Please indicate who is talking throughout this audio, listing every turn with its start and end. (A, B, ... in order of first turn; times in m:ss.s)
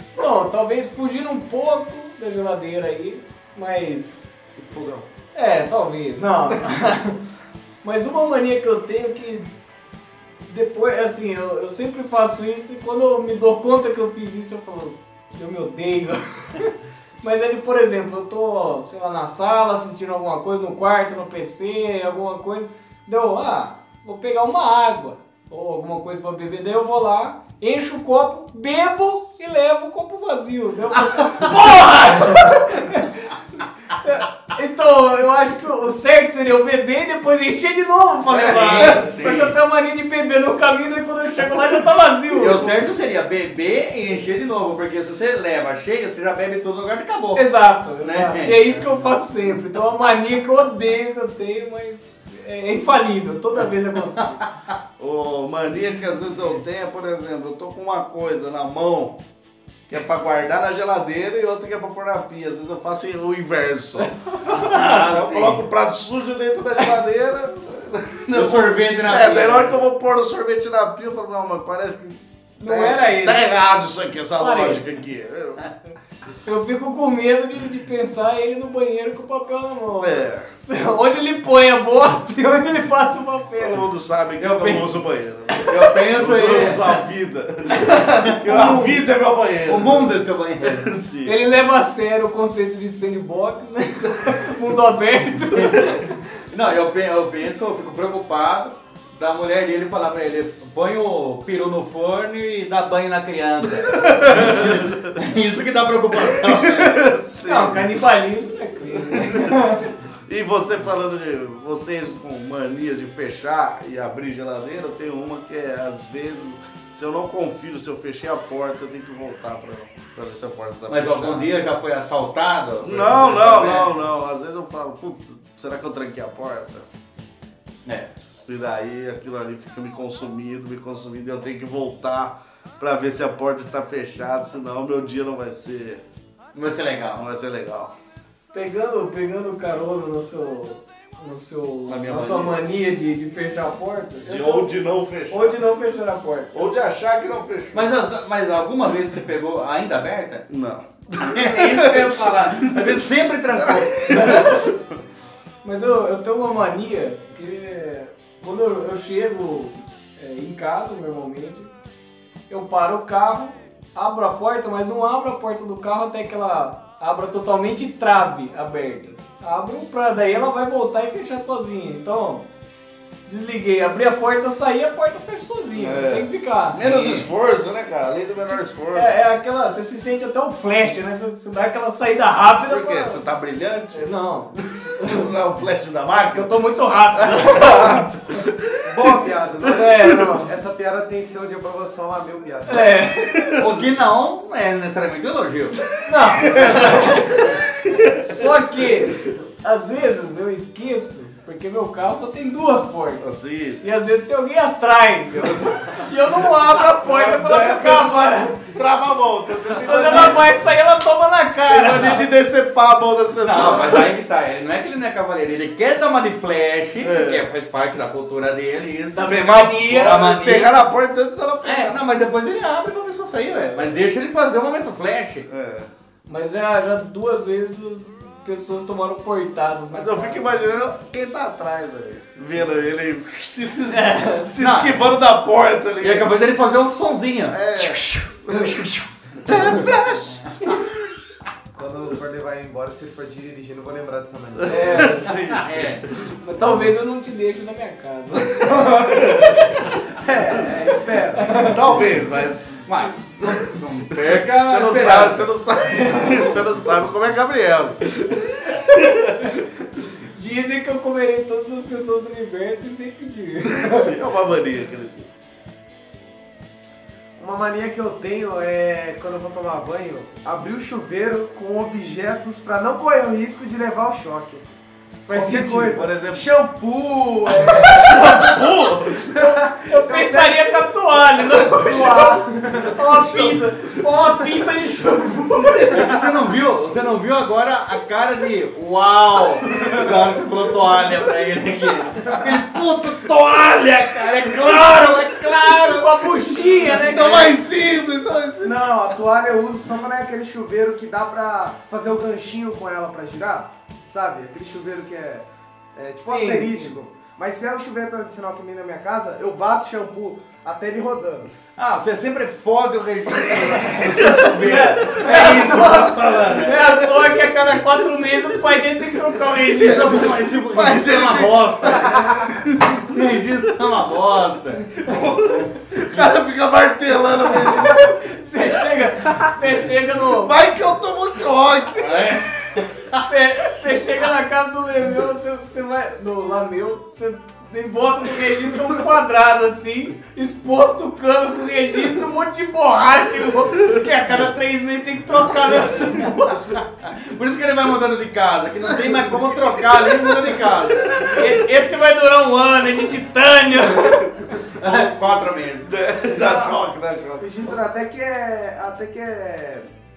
0:00.2-0:04.4 A
0:04.6-0:05.0 B
0:05.3-0:07.2 A
0:07.8-0:09.5 A
0:10.5-0:33.1 A
0:34.0-0:42.7 A
0:38.3-0:39.1 C
0:38.4-0:39.6 D
0:42.3-0:47.4 D
0:47.4-0:54.4 A
0:48.0-0:49.0 D
0:55.0-0:59.2 C
0:59.9-1:04.2 C
1:04.5-1:05.6 D
1:04.6-1:04.8 A
1:04.7-1:15.6 C
1:08.3-1:09.8 D
1:12.6-1:13.6 A
1:14.4-1:14.9 A
1:16.4-1:23.8 A
1:20.0-1:20.5 C
1:23.6-1:31.4 C
1:24.4-1:24.9 D
1:25.7-1:27.0 D
1:27.7-1:29.0 A
1:29.6-1:30.9 D
1:31.2-1:36.2 A
1:36.5-1:47.0 D
1:43.9-1:45.1 C
1:46.3-1:48.0 C
1:47.4-1:49.9 A
1:49.1-1:49.7 C
1:50.2-2:01.5 C
2:00.9-2:04.0 D
2:02.8-2:06.9 C
2:07.8-2:08.1 D
2:08.5-2:16.0 C
2:16.5-2:17.2 D
2:17.1-2:17.9 C
2:18.5-2:26.6 A
2:21.9-2:22.6 C
2:24.2-2:25.6 C
2:26.5-2:28.0 C
2:27.7-2:30.4 D
2:30.5-2:33.0 C
2:31.3-2:34.5 D
2:33.6-2:34.7 C
2:34.1-2:34.7 A
2:35.6-2:41.7 A
2:42.5-2:52.4 A
2:53.3-2:56.9 A
2:55.8-2:59.1 C
2:56.8-2:57.2 D
2:58.9-3:03.2 A
3:02.6-3:06.5 C
3:03.9-3:05.3 A
3:06.3-3:08.4 A
3:07.1-3:09.2 C
3:08.8-3:12.9 B
3:09.6-3:10.5 A
3:12.7-3:13.5 A
3:13.3-3:13.7 C
3:13.6-3:15.8 D
3:16.0-3:23.3 A
3:16.3-3:19.1 C
3:23.2-3:23.8 C
3:23.8-3:28.6 A
3:26.6-3:30.5 C
3:29.8-3:32.3 A
3:31.7-3:34.1 C
3:33.4-3:40.8 D
3:37.0-3:37.5 C
3:39.1-3:40.2 A
3:39.2-3:42.0 C
3:41.6-3:45.5 D
3:43.5-3:44.0 C
3:45.5-3:45.9 C
3:46.3-3:50.6 A
3:49.9-3:56.3 C
3:53.9-3:54.5 A
3:54.6-3:55.1 D
3:56.0-3:58.1 D
3:57.5-4:00.4 C
4:01.7-4:05.1 B
4:04.6-4:06.3 C
4:04.6-4:05.4 A
4:05.3-4:06.0 D
4:06.4-4:10.0 A
4:08.3-4:09.7 C
4:10.2-4:11.7 B
4:11.3-4:11.8 A
4:11.5-4:19.6 C
4:12.8-4:15.5 D
4:15.9-4:16.5 A
4:20.3-4:24.1 A
4:23.6-4:25.3 C
4:27.4-4:34.7 B
4:35.2-4:38.5 B
4:35.3-4:36.5 C
4:37.9-4:39.3 C
4:37.9-4:38.6 A
4:39.2-4:40.7 B
4:39.3-4:46.2 A
4:41.7-4:42.9 B
4:43.0-4:44.2 C
4:45.8-4:56.3 D
4:55.8-4:57.5 A
4:56.9-4:58.9 C
4:57.0-4:57.5 D
4:58.6-5:11.5 B
5:06.2-5:07.0 A
5:11.8-5:17.0 D
5:13.7-5:20.3 A
5:14.0-5:17.2 C
5:19.7-5:23.1 C
5:19.8-5:22.2 D
5:23.0-5:26.2 D
5:25.0-5:28.1 C
5:27.5-5:30.5 A
5:30.2-5:32.4 C
5:32.0-5:33.2 D
5:33.2-5:46.7 A
5:46.7-5:51.3 D
5:49.8-5:51.4 C
5:51.3-5:54.9 A
5:54.8-5:55.9 D
5:55.8-5:57.8 C
5:56.3-5:56.8 B
5:57.4-5:59.9 B